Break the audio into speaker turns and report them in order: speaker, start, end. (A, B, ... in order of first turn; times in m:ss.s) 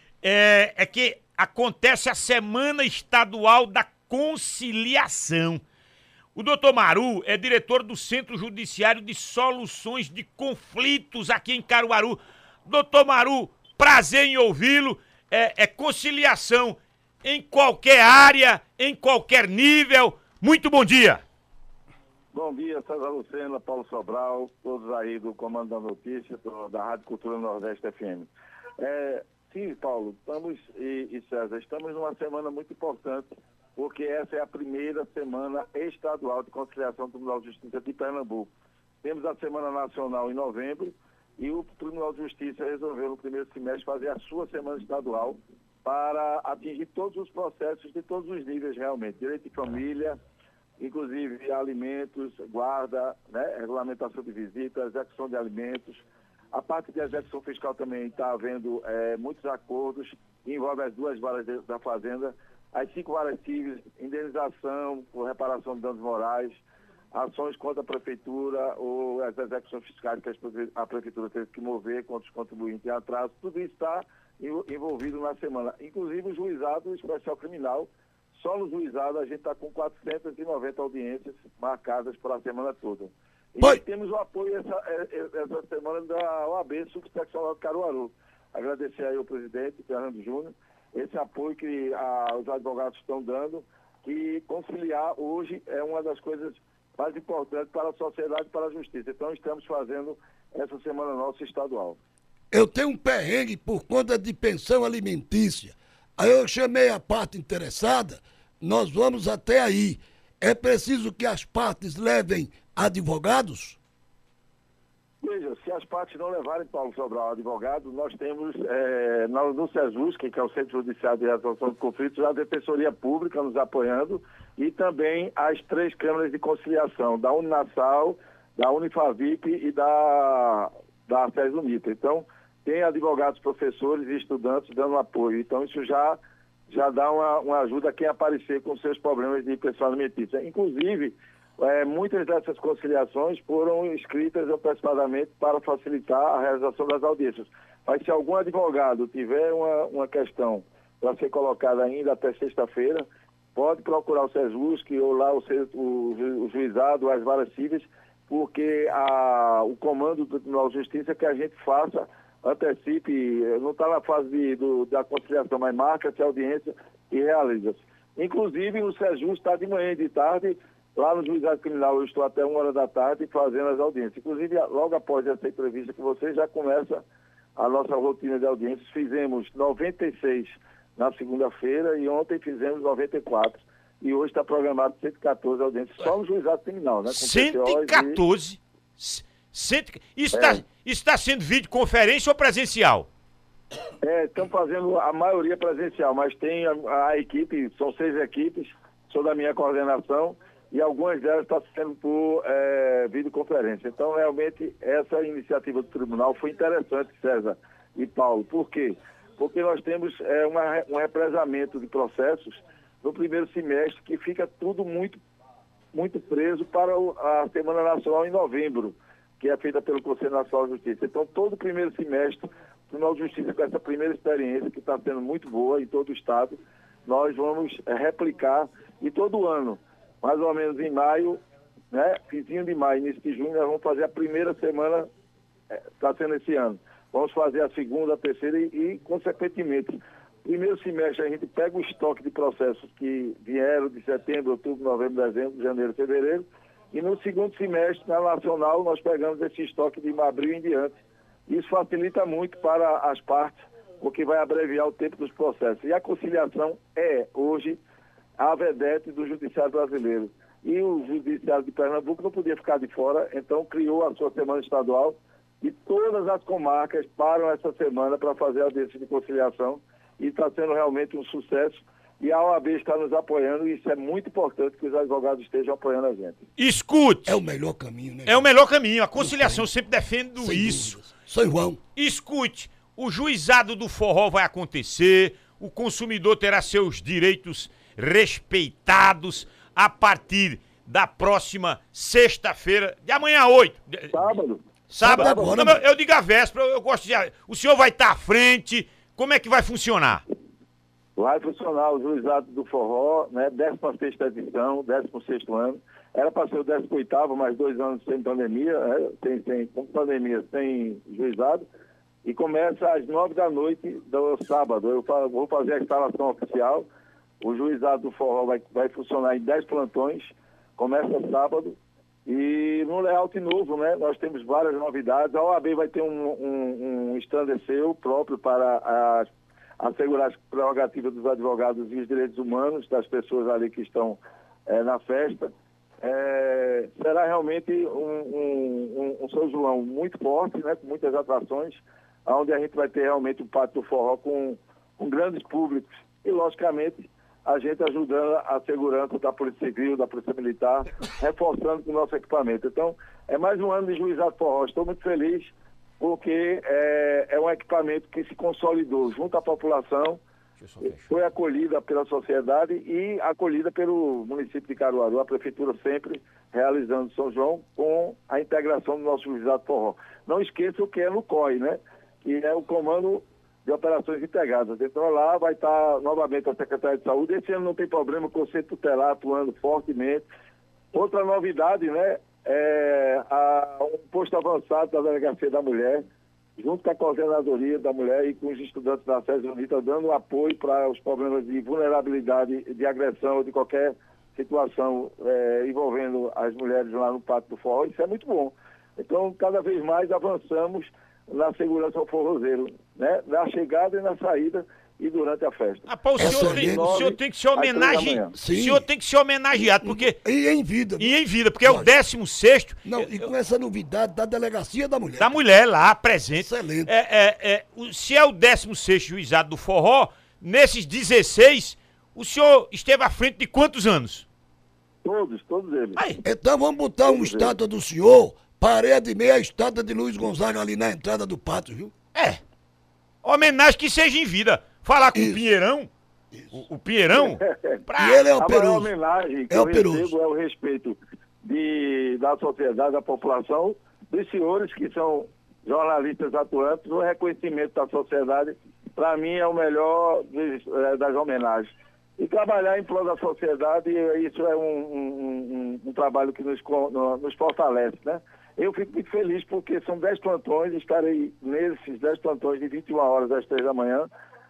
0:00.2-0:05.6 A
0:06.4-0:21.2 A
0:22.3-0:50.2 B
0:50.8-1:06.6 B
1:07.1-1:42.0 B
1:42.5-1:53.8 C
1:55.2-2:57.0 B
2:57.6-3:08.2 B
3:07.1-3:13.1 A
3:10.3-3:10.6 B
3:14.0-3:35.2 B
3:35.9-3:55.1 B
3:55.9-4:10.9 B
4:11.5-4:17.8 B
4:18.4-4:36.4 B
4:36.6-4:37.4 A
4:37.3-4:38.4 C
4:38.3-4:41.0 A
4:39.2-4:39.7 C
4:40.4-4:41.8 C
4:42.0-4:54.3 A
4:54.1-4:55.6 B
4:54.9-5:00.2 A
4:55.0-4:55.8 C
5:01.2-5:11.6 B
5:12.2-5:16.9 B
5:17.4-5:29.3 B
5:29.8-5:35.5 B
5:36.0-6:00.2 B
6:00.6-6:01.2 A
6:00.8-6:20.3 B
6:20.9-6:26.1 B
6:26.6-6:48.4 B
6:45.9-6:50.2 A
6:46.2-6:47.1 C
6:48.3-6:48.9 C
6:49.8-6:51.9 C
6:51.0-6:53.3 A
6:52.8-6:55.3 C
6:55.2-7:04.3 A
6:56.4-6:56.9 C
7:05.0-7:06.1 B
7:06.2-7:11.9 C
7:07.0-7:07.6 B
7:12.2-7:12.4 A
7:13.2-7:15.9 A
7:15.1-7:15.4 C
7:16.5-7:18.3 A
7:17.1-7:17.8 B
7:18.0-7:18.9 C
7:18.4-7:44.1 B
7:19.5-7:20.1 C